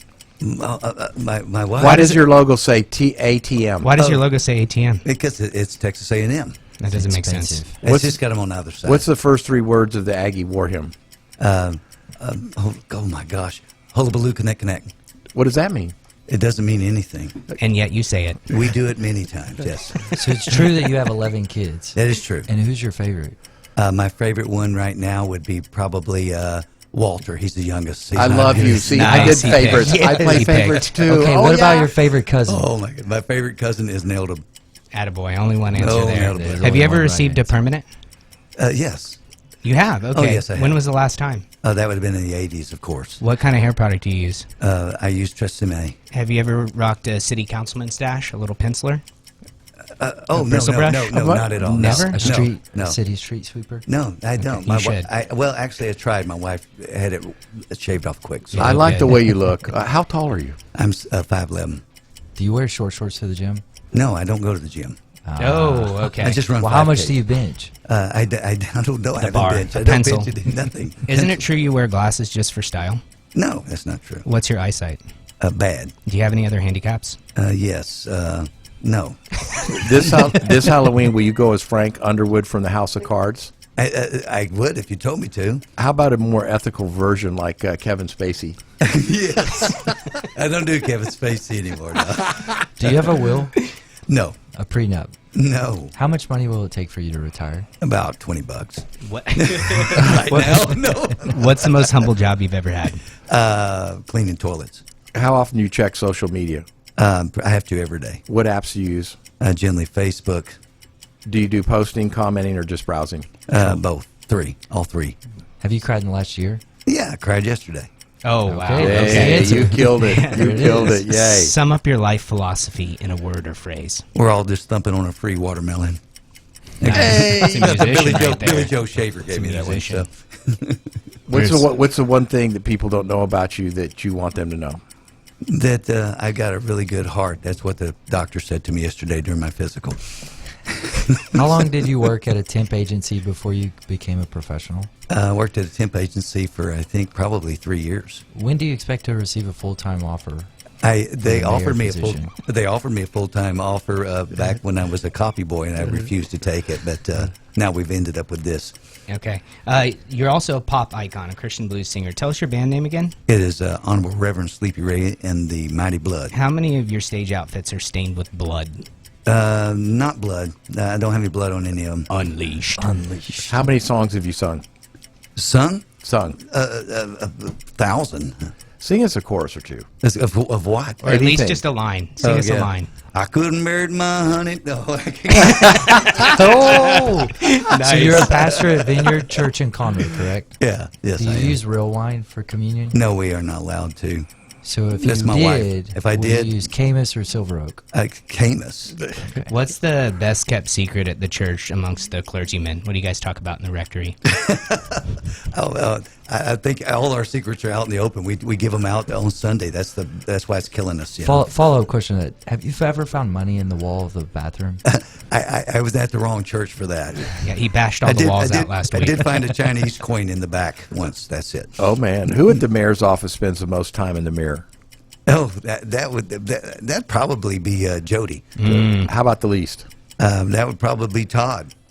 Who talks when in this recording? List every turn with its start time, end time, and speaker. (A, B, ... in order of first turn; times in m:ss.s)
0:00.4-0:02.1 A
0:01.8-0:03.9 B
0:01.8-0:02.2 C
0:03.8-0:05.0 C
0:04.0-0:04.2 A
0:05.0-0:06.6 A
0:06.8-0:07.6 C
0:06.9-0:07.8 D
0:07.8-0:09.1 A
0:07.8-0:08.2 B
0:08.8-0:10.9 B
0:11.4-0:14.9 A
0:15.3-0:15.9 B
0:16.3-0:17.4 A
0:17.6-0:18.4 C
0:18.5-0:20.2 A
0:20.1-0:23.4 D
0:22.0-0:22.5 A
0:23.8-0:30.8 A
0:28.1-0:32.0 B
0:28.8-0:31.0 C
0:31.0-0:32.7 D
0:32.4-0:34.4 A
0:34.9-0:37.8 C
0:35.7-0:36.8 A
0:36.3-0:37.5 D
0:38.6-0:39.2 A
0:39.6-0:41.4 C
0:40.1-0:40.8 A
0:41.6-0:43.2 A
0:43.2-0:44.4 C
0:44.6-0:46.0 A
0:46.1-0:49.0 C
0:50.0-0:53.0 A
0:50.3-0:52.3 C
0:51.2-0:52.0 B
0:51.8-0:53.8 D
0:53.8-0:58.8 A
0:54.4-0:55.1 C
0:58.5-0:59.2 C
0:58.6-1:00.6 B
1:00.7-1:01.8 A
1:02.4-1:03.6 D
1:03.9-1:05.0 A
1:05.2-1:07.7 D
1:05.4-1:06.4 C
1:06.2-1:07.2 A
1:07.8-1:11.4 A
1:09.2-1:10.5 C
1:11.0-1:13.0 C
1:13.3-1:14.2 A
1:14.2-1:15.0 C
1:15.4-1:15.9 A
1:16.0-1:17.2 C
1:17.3-1:20.2 A
1:19.6-1:23.5 B
1:23.8-1:25.6 A
1:25.8-1:28.6 B
1:28.8-1:32.7 A
1:32.8-1:33.6 D
1:34.1-1:34.4 A
1:34.5-1:35.1 D
1:35.3-1:35.9 A
1:35.9-1:37.7 D
1:37.8-1:41.8 A
1:39.0-1:43.0 C
1:43.3-1:44.8 A
1:45.1-1:46.6 B
1:47.0-1:48.2 A
1:48.3-1:49.2 B
1:49.4-1:50.6 A
1:51.2-1:53.3 B
1:53.5-1:55.2 A
1:55.6-1:56.6 D
1:56.8-1:57.9 A
1:58.2-2:04.0 C
1:58.5-2:01.0 D
1:58.8-2:01.6 B
2:04.1-2:06.0 A
2:06.8-2:10.8 A
2:06.8-2:10.0 C
2:06.8-2:07.8 B
2:11.3-2:14.8 B
2:11.3-2:11.7 C
2:15.4-2:20.0 A
2:20.8-2:21.4 A
2:21.3-2:24.9 D
2:25.1-2:28.2 A
2:28.3-2:30.5 D
2:30.8-2:38.7 A
2:31.2-2:32.3 D
2:39.1-2:43.1 C
2:43.3-2:46.3 A
2:46.3-2:48.8 C
2:49.2-2:52.1 A
2:52.1-2:52.9 C
2:52.8-2:53.7 D
2:53.5-2:54.6 B
2:55.4-2:55.8 A
2:56.0-2:56.4 B
2:56.4-2:58.5 A
2:58.8-2:59.8 B
3:00.0-3:01.0 A
3:01.0-3:02.9 C
3:01.0-3:01.6 B
3:02.2-3:07.0 A
3:05.7-3:08.5 C
3:06.2-3:10.6 D
3:08.3-3:08.8 A
3:10.6-3:11.6 A
3:11.2-3:13.0 D
3:12.9-3:14.3 A
3:14.6-3:17.8 D
3:15.0-3:16.7 A
3:17.9-3:19.0 A
3:19.2-3:19.5 D
3:19.5-3:24.2 C
3:24.3-3:31.4 A
3:31.2-3:34.8 D
3:34.8-3:37.4 A
3:37.4-3:39.7 C
3:38.0-3:41.8 A
3:41.8-3:44.6 B
3:45.3-3:48.5 A
3:48.6-3:49.1 C
3:48.6-3:49.8 B
3:50.2-3:51.7 A